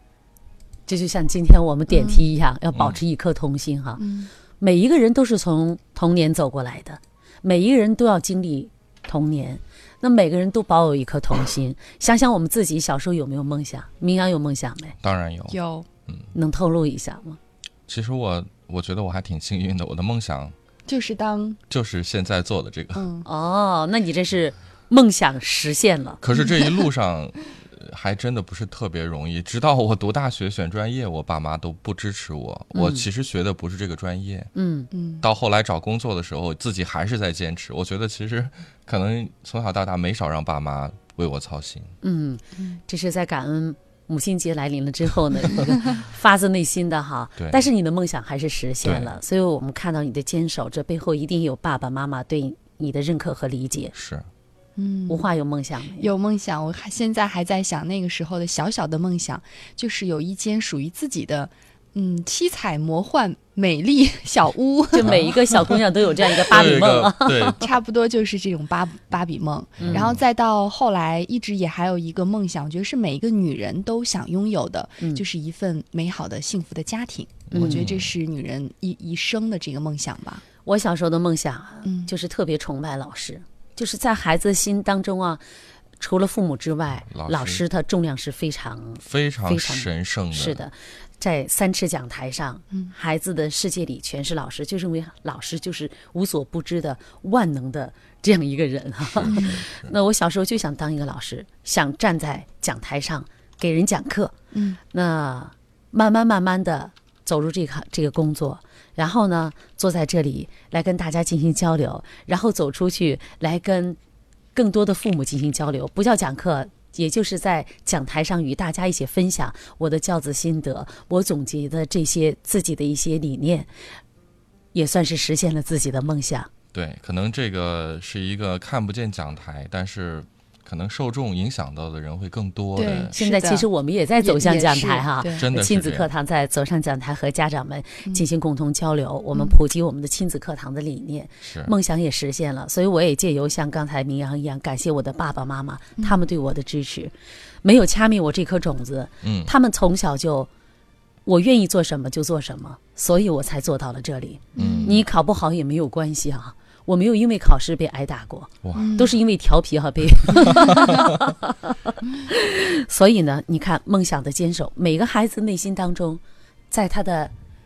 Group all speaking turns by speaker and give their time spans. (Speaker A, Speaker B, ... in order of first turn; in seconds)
Speaker A: 0.9-4.0, 4.6-14.9, 16.3-17.4, 23.2-26.2, 32.7-33.0, 34.5-34.9, 42.0-53.9, 55.1-56.1, 64.9-67.6, 69.8-70.1, 77.5-77.8, 80.6-85.4, 86.0-104.3, 104.9-114.0, 114.5-123.7, 124.7-126.5, 133.1-150.5, 151.2-167.3
Speaker B: 1.9-2.2, 4.0-4.3, 15.5-15.9, 20.9-21.6, 22.9-23.2, 26.4-26.6, 34.9-35.2, 54.8-55.2, 56.0-65.2, 67.6-80.4, 81.8-82.1, 99.3-99.5, 104.5-104.8, 132.8-133.7, 134.2-135.4, 154.6-155.0, 158.7-159.1
Speaker C: 15.0-15.6, 17.9-20.5, 21.7-23.1, 26.2-34.5, 35.2-41.9, 48.8-49.1, 53.9-54.3, 65.0-65.8, 66.4-67.6, 69.9-70.2, 77.5-78.1, 87.1-87.6, 89.0-90.6, 99.0-99.9, 126.7-133.1, 135.3-136.1, 141.4-141.7, 149.2-149.5, 154.6-155.0, 158.6-158.9, 160.5-161.1